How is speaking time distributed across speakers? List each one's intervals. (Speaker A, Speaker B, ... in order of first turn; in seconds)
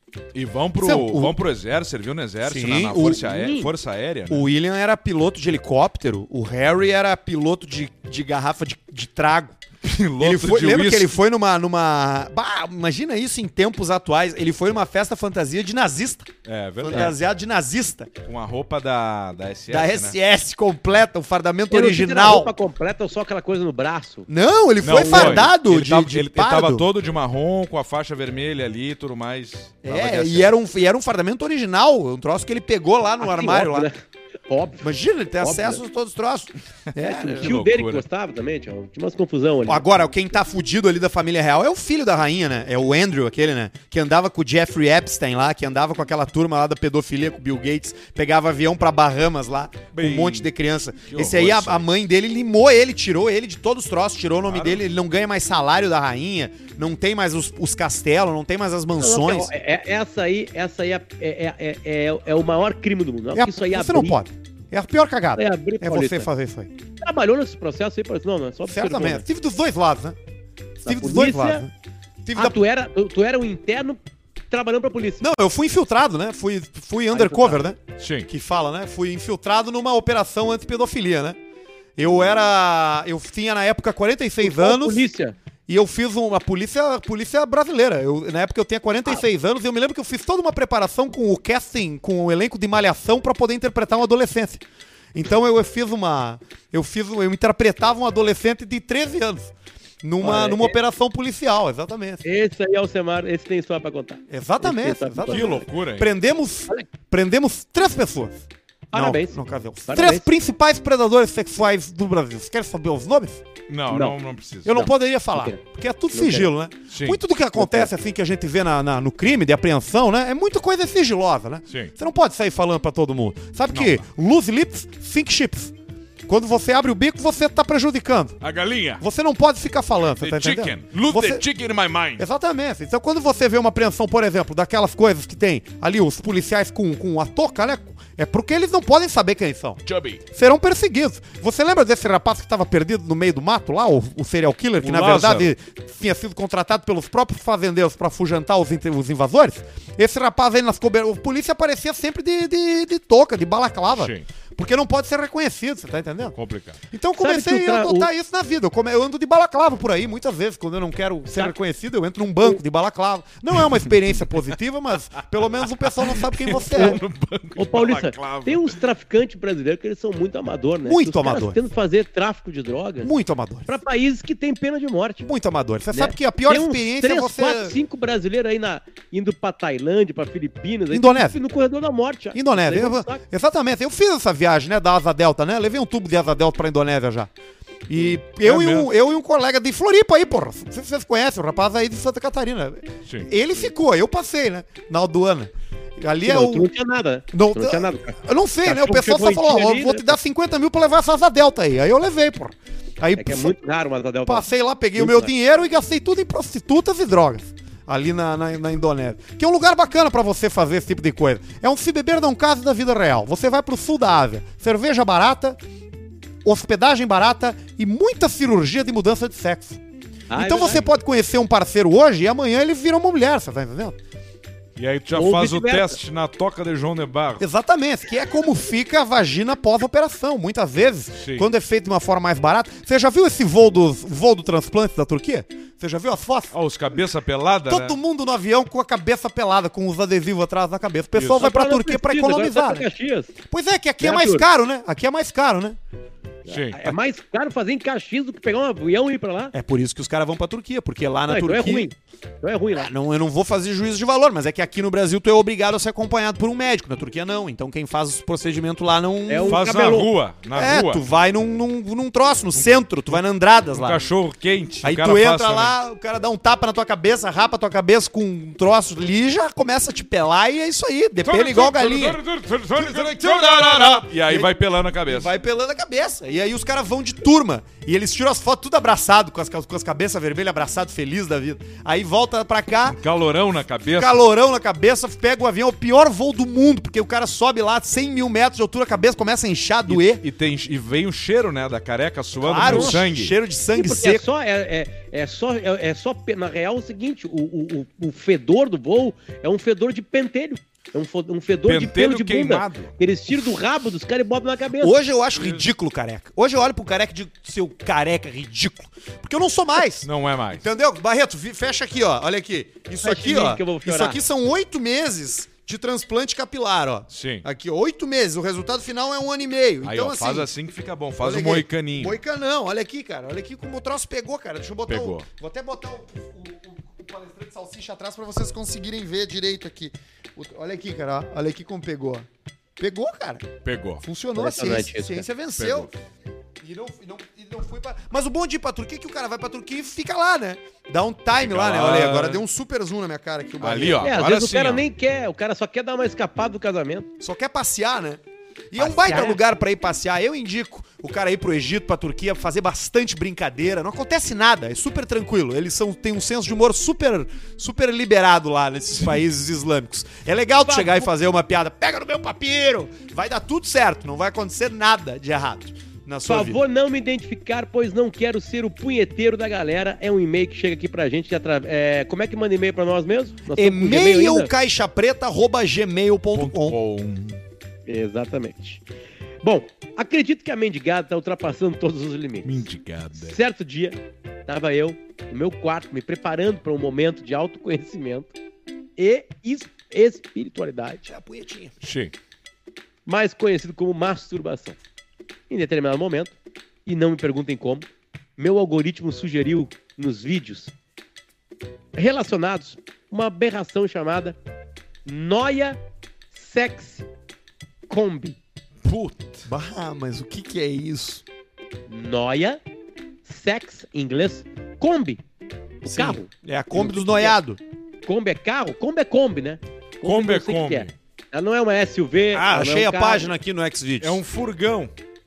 Speaker A: 0.3-4.5, 9.8-11.2, 16.4-17.2, 18.3-20.1, 24.8-30.5, 37.3-38.0, 49.9-50.5, 51.1-51.9, 54.5-54.8, 78.0-78.3, 105.3-106.1, 113.7-114.8, 116.9-117.2, 123.7-124.0, 128.4-129.0, 130.2-132.2, 139.9-140.2, 144.8-145.5, 154.0-154.2, 156.4-156.8, 166.1-168.8, 188.0-188.9, 193.1-193.3, 224.8-227.4, 231.2-231.5, 236.5-238.0, 241.2-241.4, 246.5-246.9, 259.5-261.0, 262.6-263.2, 263.7-265.8, 271.2-275.3, 282.9-284.2, 289.9-293.3, 301.7-302.9, 305.4-305.6, 310.0-310.6, 317.1-317.4, 319.8-322.2, 324.9-325.3, 333.6-334.0, 335.6-335.9, 341.4-342.4, 343.6-344.9, 376.3-377.4, 382.4-383.4, 391.8-392.1, 408.9-409.5, 420.0-420.9, 424.0-424.9
Speaker B: 0.8-1.4, 2.4-3.4, 4.3-9.6, 10.2-18.1, 19.7-22.5, 24.3-26.9, 29.8-33.9, 34.8-37.5, 39.7-59.5, 63.3-66.7, 68.7-70.2, 70.8-71.7, 72.2-72.6, 75.2-81.4, 82.0-85.0, 85.7-94.6, 95.1-99.5, 100.0-102.2, 104.3-113.4, 114.7-125.7, 126.3-128.4, 129.0-131.4, 132.2-156.4, 156.9-167.0, 170.8-171.6, 173.0-173.7, 175.2-177.8, 180.9-181.4, 182.3-187.3, 187.9-196.7, 197.3-203.5, 204.3-215.6, 216.4-219.8, 220.3-224.0, 227.4-236.5, 237.7-242.9, 243.5-245.8, 249.5-251.9, 252.8-259.6, 260.6-264.0, 264.8-272.2, 272.8-274.5, 275.1-283.0, 284.0-290.2, 292.4-294.2, 304.8-320.5, 321.2-332.3, 332.8-333.5, 334.0-335.9, 336.6-344.1, 347.2-348.2, 348.7-366.6, 373.5-376.8, 391.1-391.7, 409.5-411.2, 415.9-417.6, 422.3-424.2
Speaker C: 3.3-3.7, 21.7-24.3, 24.9-25.5, 33.2-35.8, 37.0-39.9, 59.0-64.2, 65.4-66.3, 67.0-69.2, 70.8-71.7, 72.3-74.0, 74.5-75.2, 77.1-77.7, 84.4-85.3, 100.2-100.8, 102.2-105.6, 108.9-110.3, 113.9-114.2, 114.7-115.6, 116.1-116.5, 117.6-117.9, 157.2-158.1, 166.7-167.0, 167.6-173.1, 173.7-175.3, 175.9-183.2, 196.2-200.2, 203.2-205.3, 220.3-220.9, 225.1-226.0, 241.3-243.3, 244.0-244.4, 246.4-249.5, 251.3-252.9, 259.3-260.1, 292.6-293.1, 293.7-304.9, 313.0-314.2, 334.4-335.3, 344.0-347.1, 348.8-349.4, 360.6-361.1, 366.3-374.5, 377.9-378.8, 379.4-382.5, 383.2-388.3, 389.0-391.1, 393.1-394.8, 395.5-396.4, 396.9-400.7, 401.9-404.4, 405.1-405.8, 406.3-407.1, 407.9-408.4, 411.9-412.6, 413.2-415.2, 415.8-417.4, 418.1-423.3